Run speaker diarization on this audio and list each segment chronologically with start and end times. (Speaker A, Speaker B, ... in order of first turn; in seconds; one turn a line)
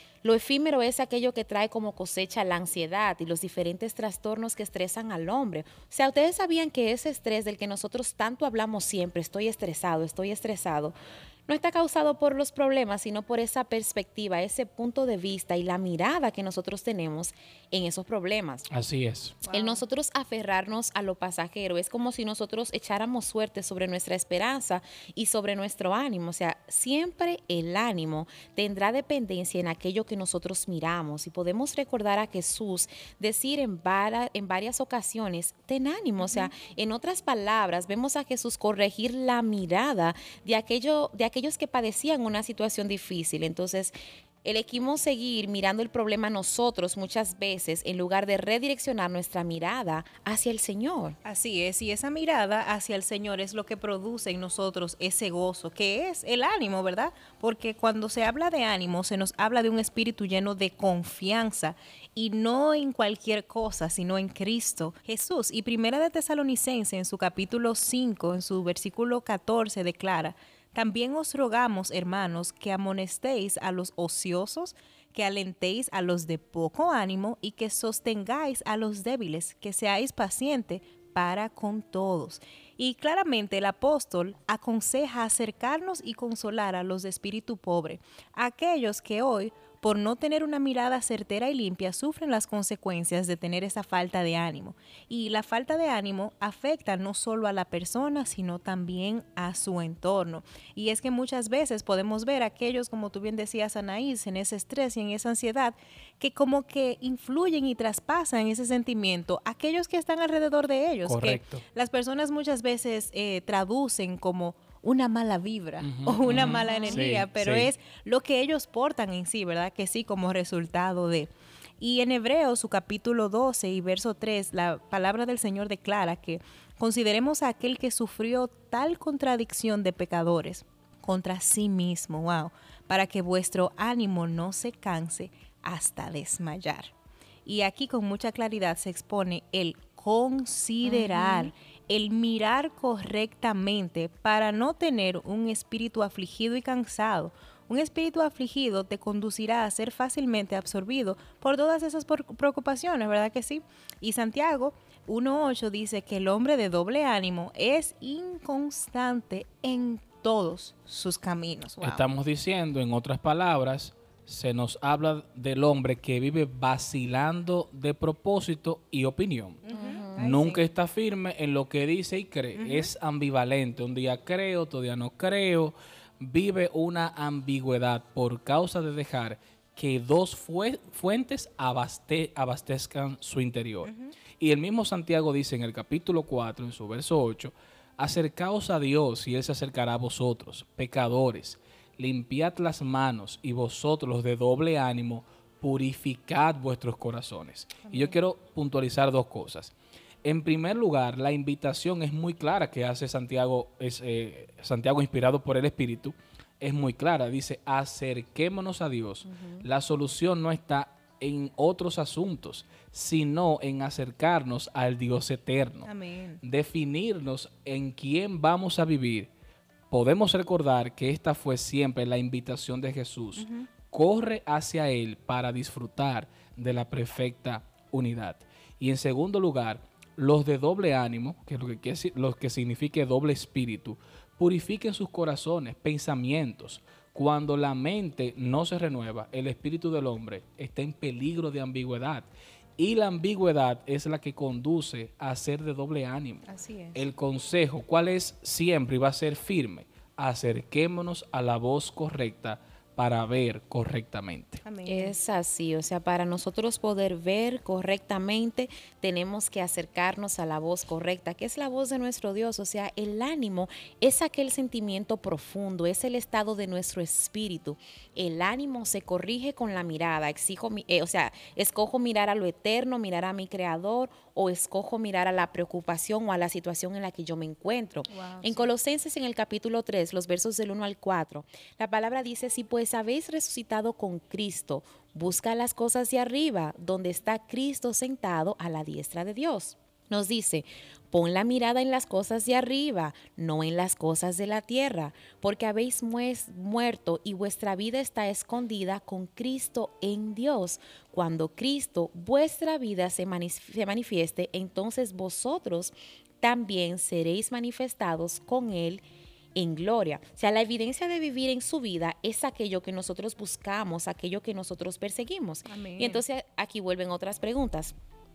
Speaker A: 0.2-11.0
Speaker A: 11.5-18.7
Speaker B: 18.7-19.4
Speaker C: 19.4-19.8
Speaker A: 19.5-51.2
Speaker C: 36.2-36.5
Speaker C: 51.2-136.9
Speaker B: 111.0-111.6
Speaker B: 115.8-117.7
Speaker A: 116.3-117.0
Speaker C: 137.4-162.0
Speaker A: 140.8-141.5
Speaker B: 161.8-169.6
Speaker C: 169.6-170.6
Speaker A: 169.7-170.3
Speaker B: 170.2-199.7
Speaker C: 172.5-172.9
Speaker C: 183.8-184.2
Speaker C: 197.8-198.2
Speaker B: 200.2-215.9
Speaker A: 209.2-209.7
Speaker C: 215.8-216.4
Speaker B: 216.4-219.3
Speaker B: 219.9-242.3
Speaker C: 223.3-223.7
Speaker B: 242.8-254.6
Speaker C: 246.5-247.0
Speaker C: 254.6-255.2
Speaker A: 254.8-309.0
Speaker C: 278.1-278.7
Speaker A: 309.5-317.9
Speaker C: 315.6-316.2